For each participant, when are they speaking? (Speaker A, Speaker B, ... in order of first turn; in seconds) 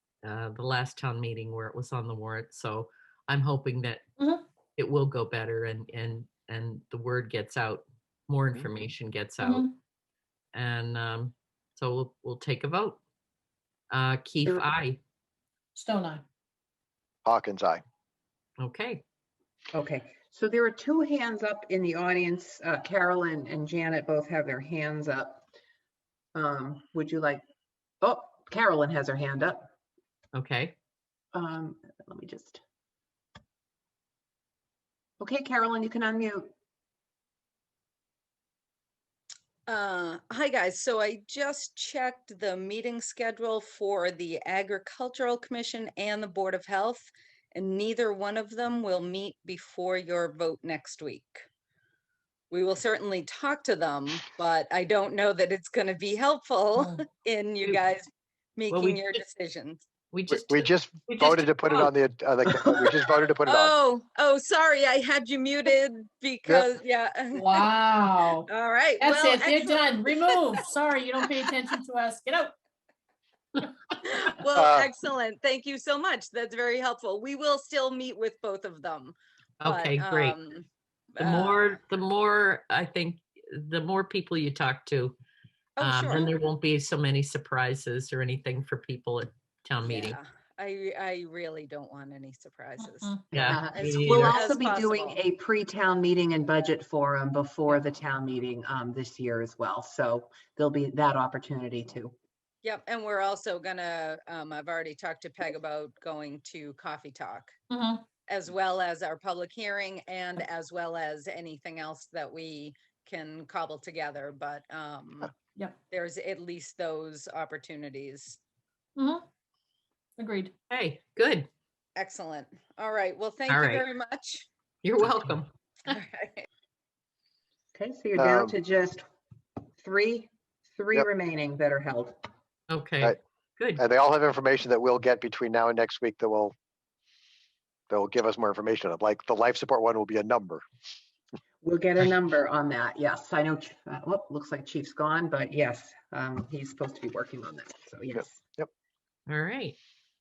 Speaker A: 0.2-4.0, 4.8-9.7, 10.5-13.0, 13.9-15.0, 18.6-19.0, 30.3-30.8, 58.7-59.2, 60.1-61.9, 79.6-80.4, 81.2-85.2, 85.8-90.2, 93.3-94.4, 120.7-121.5, 123.5-123.9, 124.8-125.5, 132.7-133.8, 149.3-149.8
Speaker B: 4.2-4.4, 9.4-9.8, 15.8-16.2, 67.3-68.5, 69.0-72.5, 92.8-93.3, 107.7-108.1, 119.0-119.2, 120.2-120.5
Speaker C: 17.2-17.8, 60.3-63.7, 74.5-74.9, 128.2-128.6, 133.8-136.5, 137.9-140.6
Speaker D: 19.7-25.4, 26.4-27.4, 28.0-29.7, 31.3-32.6, 35.2-36.5, 93.3-102.2, 127.7-129.1, 129.8-132.2, 141.6-148.4
Speaker E: 39.7-51.4, 52.5-59.8, 63.5-67.7, 68.4-71.5, 74.0-81.7, 85.8-86.3, 89.8-93.2, 94.1-95.2, 102.6-107.5, 108.3-115.3, 115.9-118.4, 122.0-124.5, 125.9-126.5